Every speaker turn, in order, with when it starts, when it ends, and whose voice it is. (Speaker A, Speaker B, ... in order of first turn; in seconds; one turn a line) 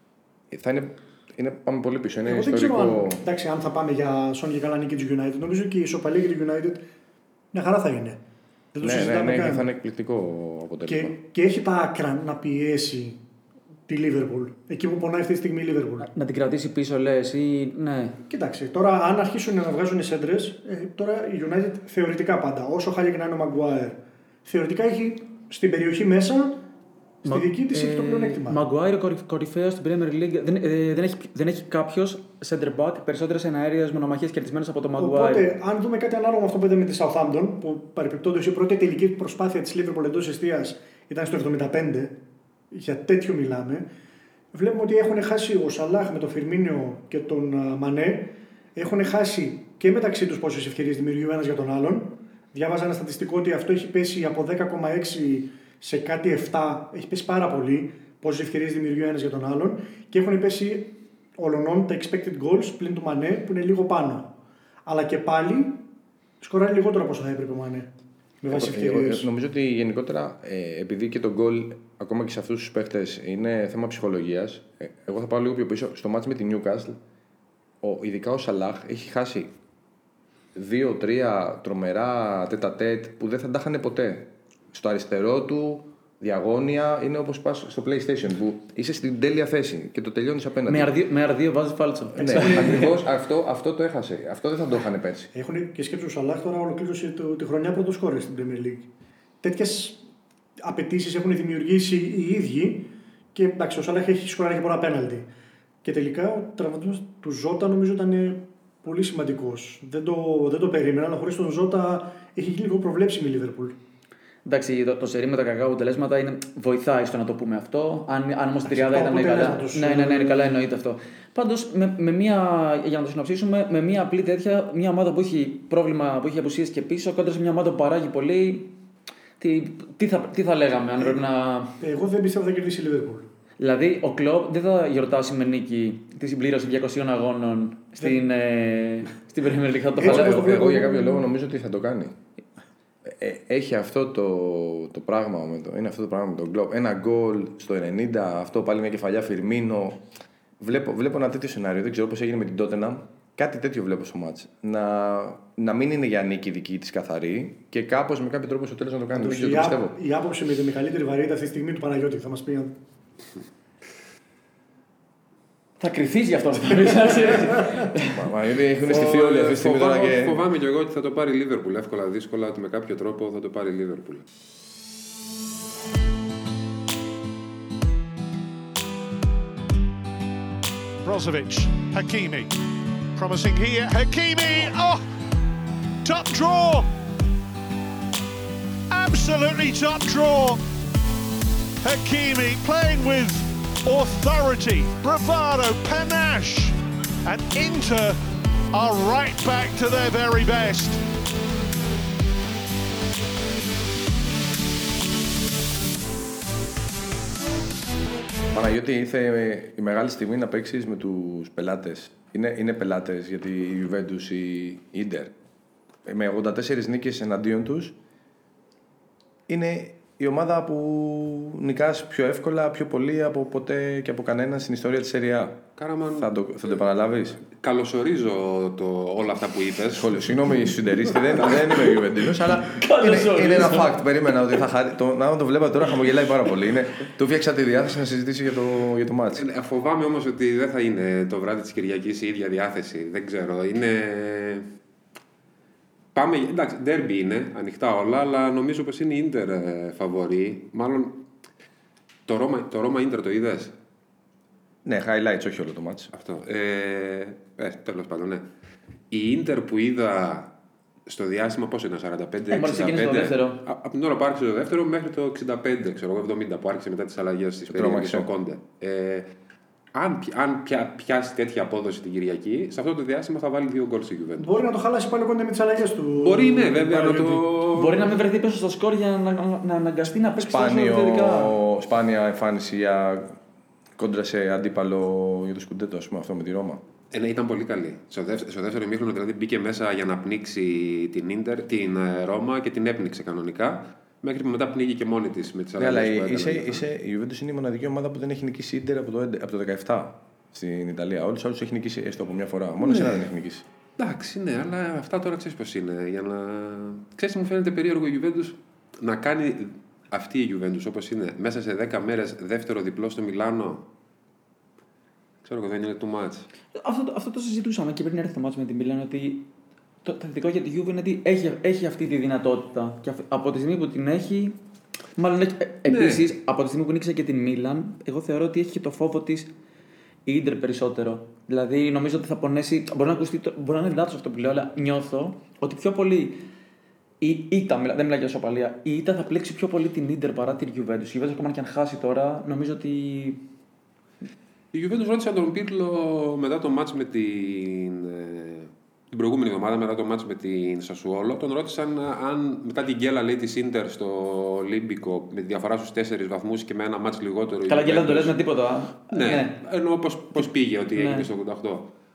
Speaker A: 0.5-3.2
Speaker B: 2.2-6.8
Speaker B: 7.5-8.2
Speaker B: 8.7-9.6
Speaker A: 8.8-11.2
Speaker B: 10.9-13.2
Speaker B: 13.9-16.1
Speaker C: 16.0-18.2
Speaker B: 18.3-26.6
Speaker B: 27.2-28.6
Speaker C: 27.2-35.5
Speaker B: 35.0-42.2
Speaker B: 42.7-43.9
Speaker B: 44.5-64.3
Speaker B: 64.8-65.8
Speaker B: 66.4-67.9
Speaker B: 68.4-69.3
Speaker A: 68.5-77.0
Speaker A: 77.8-79.5
Speaker A: 80.5-90.9
Speaker C: 90.7-92.9
Speaker B: 92.2-92.9
Speaker A: 92.2-95.3
Speaker B: 95.3-98.9
Speaker B: 99.4-100.0
Speaker B: 100.6-105.3
Speaker B: 105.8-113.8
Speaker C: 114.4-128.7
Speaker B: 118.7-120.6
Speaker C: 129.4-131.8
Speaker B: 131.8-133.3
Speaker C: 133.6-140.9
Speaker B: 140.0-141.2
Speaker A: 140.0-142.2
Speaker A: 143.0-150.1
Speaker A: 150.6-159.9
Speaker B: 159.1-162.7
Speaker C: 165.8-168.2
Speaker A: 168.0-170.4
Speaker D: 168.8-174.2
Speaker E: 181.0-182.5
Speaker E: 183.1-185.0
Speaker E: 186.0-186.9
Speaker E: 188.9-190.6
Speaker E: 191.8-198.2
Speaker E: 198.7-201.0
Speaker A: 208.5-215.3
Speaker A: 216.0-217.9
Speaker A: 219.5-225.6
Speaker D: 225.8-226.3
Speaker A: 226.2-227.4
Speaker D: 227.5-230.1
Speaker A: 229.9-239.4
Speaker C: 232.7-234.0
Speaker D: 239.3-244.7
Speaker D: 246.1-251.2
Speaker D: 252.2-253.7
Speaker A: 254.8-256.1
Speaker D: 256.1-258.4
Speaker D: 259.1-260.5
Speaker D: 261.1-269.3
Speaker C: 262.5-263.6
Speaker A: 267.7-268.3
Speaker D: 269.9-274.6
Speaker B: 274.4-277.4
Speaker D: 276.2-278.1
Speaker C: 277.7-281.5
Speaker A: 280.4-283.4
Speaker A: 284.0-286.8
Speaker D: 287.1-296.8
Speaker A: 295.8-303.6
Speaker D: 302.8-303.2
Speaker D: 304.0-313.9
Speaker D: 315.4-316.4
Speaker C: 316.7-319.5
Speaker C: 320.0-324.6
Speaker C: 325.2-329.5
Speaker D: 325.9-326.2
Speaker C: 330.2-336.4
Speaker C: 337.2-343.4
Speaker D: 344.7-358.4
Speaker C: 357.7-359.6
Speaker D: 359.1-361.9
Speaker C: 360.3-361.2